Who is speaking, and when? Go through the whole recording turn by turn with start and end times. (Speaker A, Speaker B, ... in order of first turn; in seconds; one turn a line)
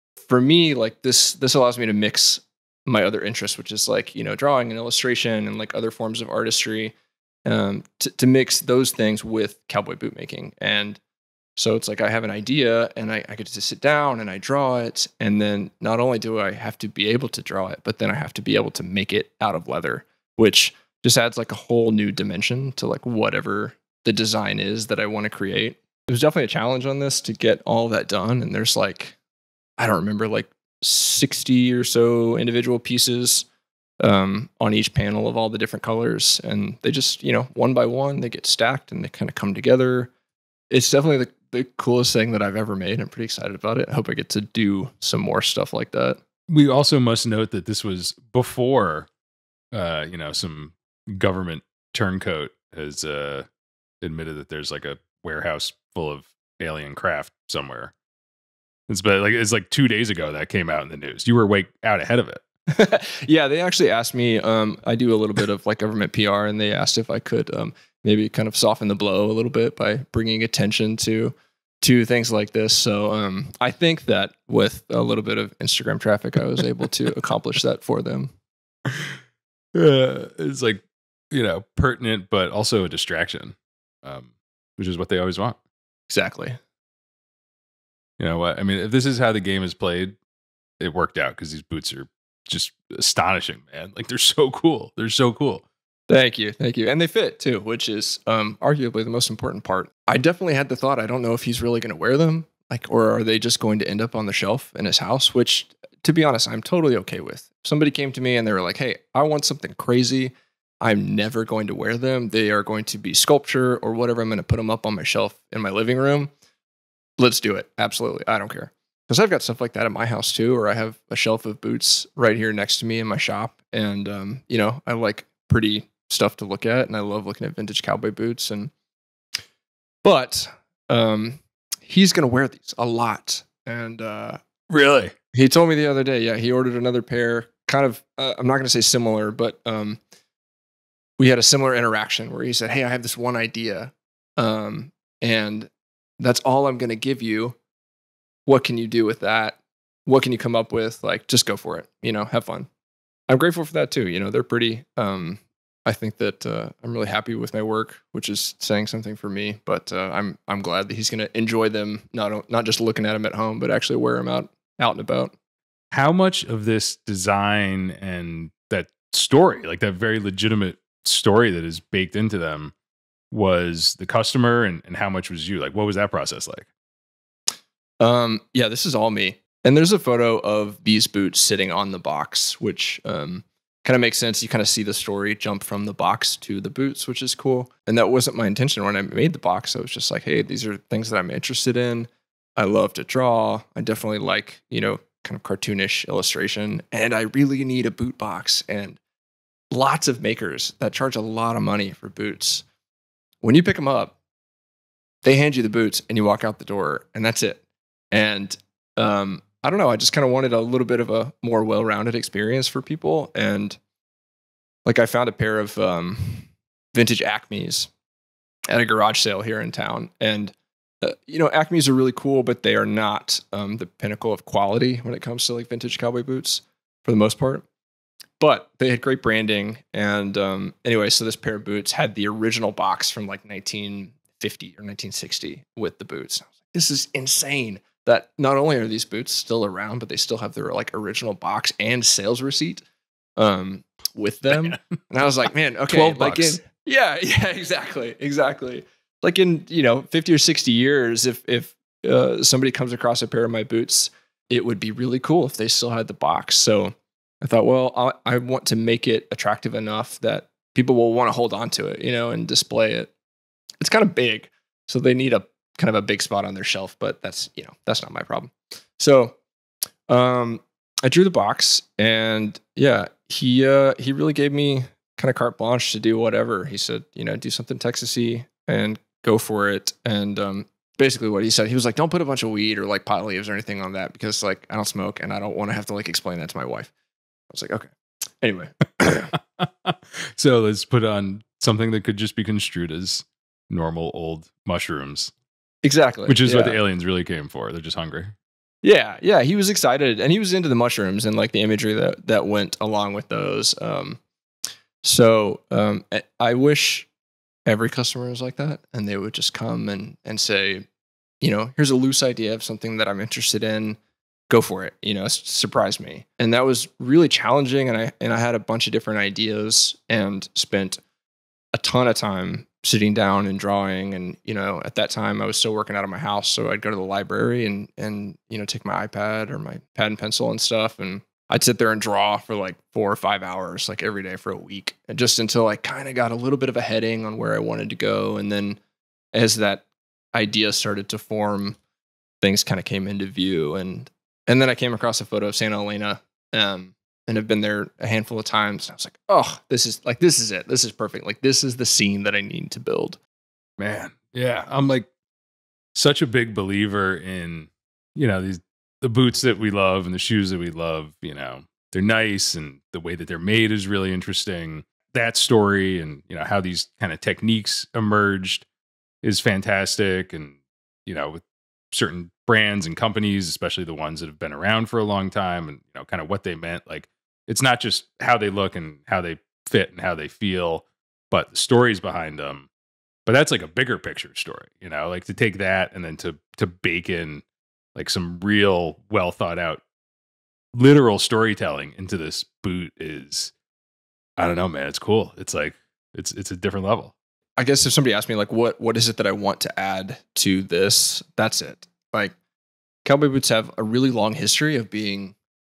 Speaker A: 0.3-6.9
Speaker A: 7.5-11.0
Speaker A: 11.6-29.1
Speaker A: 29.8-33.5
Speaker A: 34.0-40.1
Speaker A: 40.7-46.2
Speaker B: 46.5-49.1
Speaker B: 49.7-53.5
Speaker B: 54.0-57.9
Speaker B: 58.9-62.4
Speaker A: 62.7-78.3
Speaker B: 78.8-79.2
Speaker B: 79.7-85.6
Speaker A: 86.1-86.6
Speaker B: 88.2-90.2
Speaker B: 90.8-95.6
Speaker A: 96.1-116.3
Speaker A: 117.2-128.7
Speaker A: 130.0-134.4
Speaker B: 134.7-135.1
Speaker A: 135.2-140.0
Speaker A: 141.2-147.6
Speaker A: 148.4-152.7
Speaker A: 153.3-165.3
Speaker B: 165.9-172.7
Speaker B: 173.3-176.7
Speaker A: 178.0-199.0
Speaker A: 199.7-202.6
Speaker A: 203.4-204.1
Speaker A: 205.2-207.6
Speaker A: 208.1-213.8
Speaker A: 214.8-217.9
Speaker A: 218.7-227.7
Speaker A: 228.4-242.8
Speaker A: 243.4-263.1
Speaker B: 244.5-244.8
Speaker B: 245.9-246.6
Speaker A: 263.8-269.4
Speaker A: 270.1-286.9
Speaker A: 287.5-289.3
Speaker B: 289.6-295.3
Speaker A: 295.8-296.8
Speaker B: 296.3-298.3
Speaker A: 298.8-304.2
Speaker A: 305.0-307.1
Speaker A: 307.6-310.9
Speaker A: 311.4-314.0
Speaker A: 314.5-321.0
Speaker A: 321.7-338.8
Speaker A: 339.3-341.8
Speaker A: 342.4-353.2
Speaker B: 353.8-355.1
Speaker B: 355.9-368.6
Speaker B: 369.2-382.7
Speaker B: 383.2-387.4
Speaker B: 387.9-389.8
Speaker B: 390.7-393.5
Speaker B: 394.4-397.1
Speaker A: 397.6-402.3
Speaker A: 403.0-405.3